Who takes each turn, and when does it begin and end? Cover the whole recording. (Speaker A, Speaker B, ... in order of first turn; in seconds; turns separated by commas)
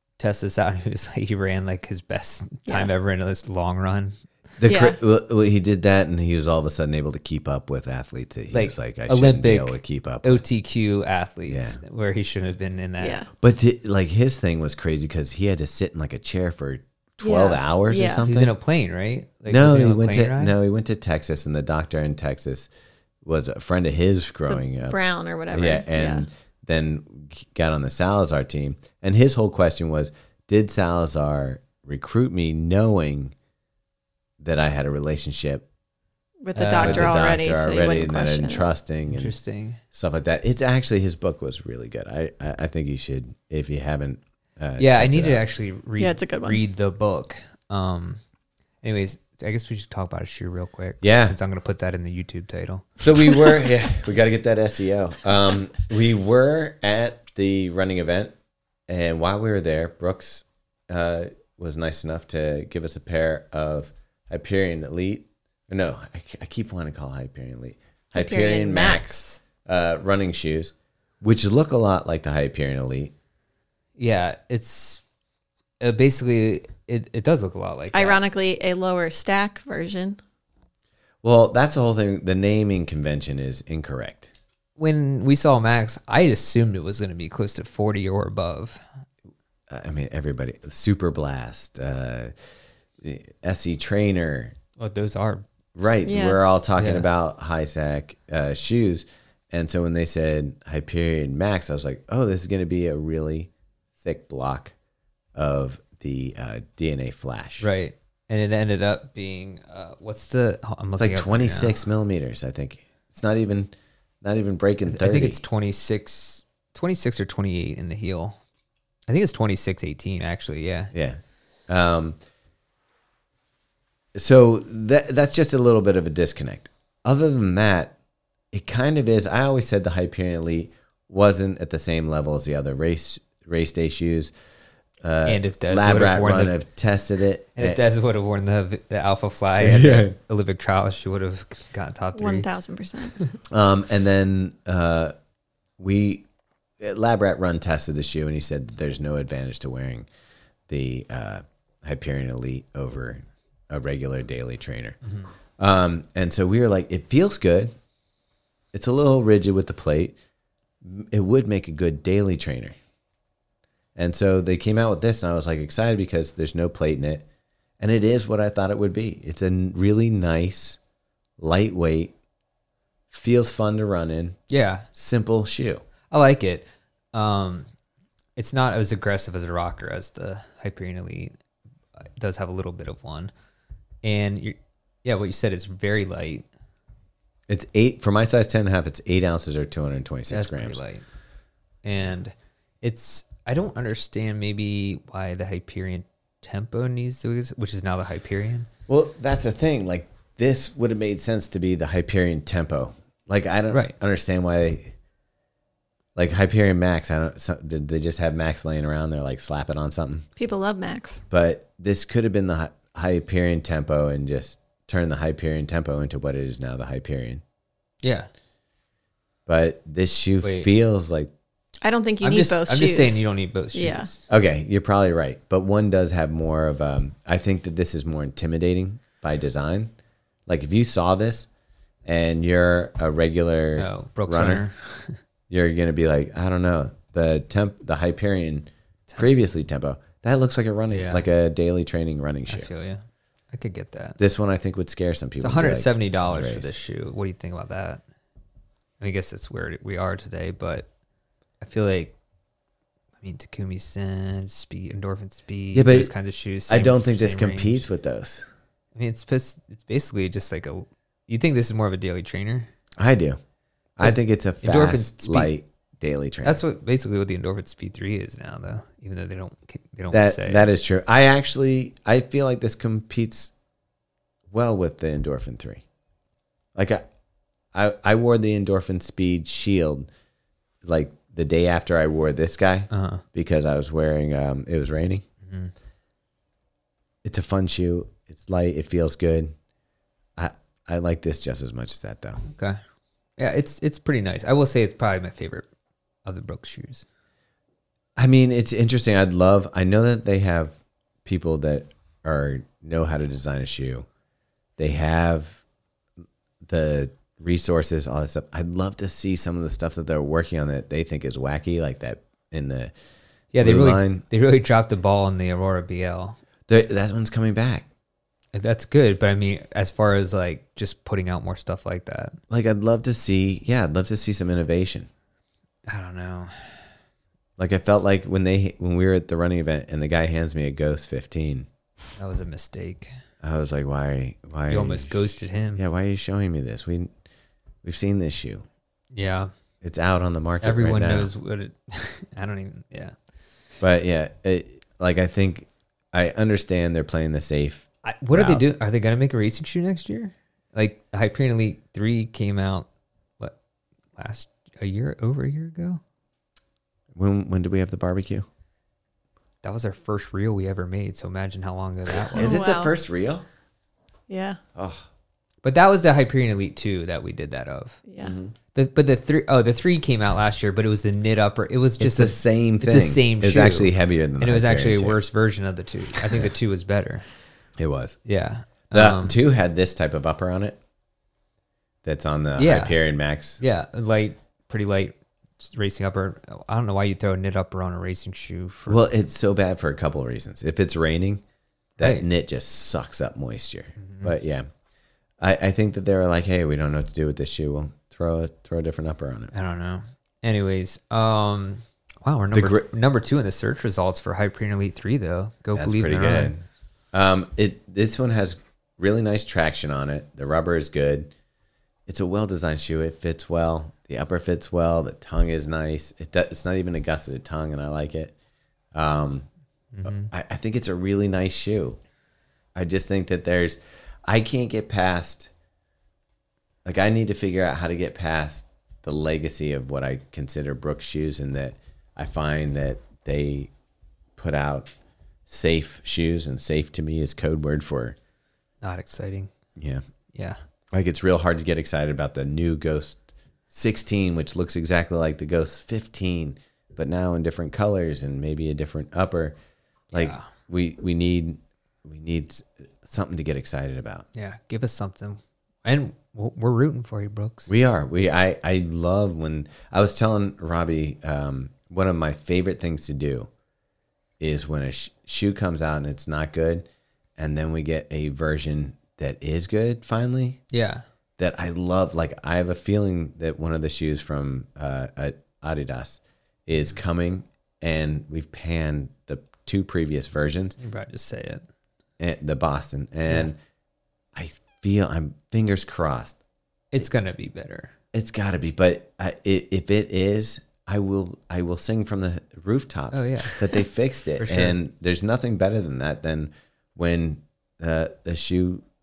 Speaker A: 0.2-4.2, Speaker B: 2.7-2.9, Speaker C: 4.6-10.4, Speaker B: 4.7-5.0, Speaker A: 8.5-13.2, Speaker C: 11.5-11.8, Speaker B: 13.0-13.3, Speaker C: 13.4-18.5, Speaker B: 17.2-18.2, Speaker A: 18.3-20.5, Speaker C: 19.5-22.7, Speaker C: 23.2-25.0, Speaker B: 24.5-26.3, Speaker C: 25.5-33.4, Speaker C: 34.4-35.7, Speaker B: 36.4-38.7, Speaker C: 36.6-39.4, Speaker A: 36.6-37.1, Speaker A: 39.1-39.8, Speaker C: 39.9-45.4, Speaker A: 44.8-48.2, Speaker B: 46.0-46.6, Speaker A: 48.8-53.5, Speaker C: 51.0-51.4, Speaker C: 53.0-58.4, Speaker C: 58.9-73.1, Speaker B: 68.1-69.4, Speaker A: 74.0-75.0, Speaker A: 75.8-78.2, Speaker B: 77.9-80.2, Speaker C: 81.2-84.3, Speaker A: 84.8-88.8, Speaker C: 89.7-92.3, Speaker C: 93.0-94.5, Speaker A: 94.8-95.5, Speaker C: 95.8-104.7, Speaker B: 96.1-96.4, Speaker A: 96.8-97.1, Speaker C: 105.3-107.7, Speaker A: 107.6-111.8, Speaker C: 111.0-115.4, Speaker A: 114.9-118.4, Speaker A: 119.1-120.9, Speaker C: 120.9-122.2, Speaker C: 124.2-128.0, Speaker C: 128.5-134.3, Speaker C: 135.0-137.8, Speaker A: 135.3-136.6, Speaker A: 137.6-142.5, Speaker C: 139.6-140.1, Speaker B: 142.2-143.3, Speaker C: 143.5-145.2, Speaker C: 145.8-146.3, Speaker C: 146.8-150.1, Speaker C: 150.7-155.0, Speaker A: 155.0-155.3, Speaker C: 155.6-157.7, Speaker C: 158.7-160.2, Speaker C: 160.8-162.8, Speaker C: 163.9-167.2, Speaker C: 167.8-170.8, Speaker C: 171.4-172.2, Speaker C: 173.1-174.4, Speaker A: 174.5-174.9, Speaker C: 174.9-175.8, Speaker A: 176.1-177.7, Speaker A: 178.4-181.3, Speaker A: 182.0-183.3, Speaker A: 184.0-186.5, Speaker C: 187.5-190.8, Speaker A: 190.3-191.1, Speaker A: 191.8-198.7, Speaker C: 198.9-204.9, Speaker C: 206.2-210.3, Speaker B: 210.4-211.2, Speaker C: 211.3-217.4, Speaker A: 218.0-218.3, Speaker C: 219.5-221.3, Speaker A: 220.4-220.7, Speaker B: 221.8-224.1, Speaker A: 222.2-224.3, Speaker C: 224.3-229.9, Speaker C: 230.5-231.5, Speaker C: 232.1-234.7, Speaker A: 233.8-235.2, Speaker C: 235.5-242.7, Speaker A: 240.9-241.2, Speaker A: 242.5-244.2, Speaker C: 244.2-246.7, Speaker A: 245.4-248.0, Speaker A: 249.0-250.9, Speaker A: 251.6-252.2, Speaker A: 253.2-257.9, Speaker C: 255.7-256.1, Speaker C: 256.7-258.4, Speaker A: 258.9-262.7, Speaker C: 263.0-263.4, Speaker C: 264.0-266.6, Speaker A: 264.0-265.5, Speaker A: 266.4-270.6, Speaker C: 270.1-273.5, Speaker C: 274.5-275.8, Speaker C: 276.8-277.1, Speaker C: 277.7-280.1, Speaker C: 280.8-285.2, Speaker A: 282.9-283.2, Speaker A: 285.4-285.7, Speaker C: 287.2-289.6, Speaker C: 290.4-292.4, Speaker A: 292.5-292.8, Speaker A: 293.4-295.7, Speaker A: 296.2-297.1, Speaker C: 298.2-304.1, Speaker C: 304.8-305.6, Speaker C: 306.6-312.9, Speaker A: 313.5-316.4, Speaker C: 313.6-314.2, Speaker C: 316.7-317.9, Speaker A: 318.5-322.4, Speaker C: 322.5-325.1, Speaker A: 325.9-326.9, Speaker C: 327.6-331.7, Speaker A: 332.2-333.1, Speaker C: 333.4-337.1, Speaker A: 334.7-335.8, Speaker C: 337.8-338.6, Speaker A: 339.1-339.5, Speaker C: 339.8-341.3, Speaker A: 340.6-343.1, Speaker C: 343.8-348.6, Speaker A: 348.0-352.9, Speaker A: 354.2-356.0, Speaker C: 357.1-358.5, Speaker A: 359.6-362.6, Speaker B: 362.4-362.9, Speaker C: 362.4-363.5, Speaker B: 364.3-364.6, Speaker C: 364.8-365.1, Speaker A: 365.6-368.0, Speaker B: 368.1-368.3, Speaker C: 368.2-368.5, Speaker A: 368.7-377.3, Speaker C: 372.0-375.2, Speaker C: 377.8-378.2, Speaker A: 378.3-379.4, Speaker C: 378.9-380.8, Speaker C: 382.0-383.6, Speaker A: 382.6-383.0, Speaker A: 383.6-389.1, Speaker C: 388.9-391.4, Speaker C: 392.0-394.7, Speaker A: 394.0-394.3, Speaker C: 395.4-399.5, Speaker A: 399.5-406.5, Speaker C: 402.5-402.9, Speaker C: 405.8-411.3, Speaker C: 412.1-418.4, Speaker C: 418.9-419.5, Speaker A: 419.9-420.3, Speaker C: 420.0-422.0, Speaker C: 422.8-425.5, Speaker C: 426.9-433.7, Speaker C: 434.4-434.9, Speaker C: 435.5-438.2, Speaker A: 438.8-439.5, Speaker C: 439.8-440.0, Speaker A: 440.3-440.6, Speaker C: 440.9-449.6, Speaker C: 450.1-454.3, Speaker A: 450.2-450.5, Speaker A: 454.4-457.7, Speaker C: 457.7-463.5, Speaker C: 464.4-466.9, Speaker C: 467.4-470.6, Speaker A: 470.7-471.1, Speaker C: 471.4-480.8, Speaker A: 480.8-481.6, Speaker C: 482.2-483.6, Speaker C: 484.3-486.4, Speaker A: 486.9-487.9, Speaker C: 488.1-498.9, Speaker A: 493.1-493.8, Speaker A: 494.4-494.8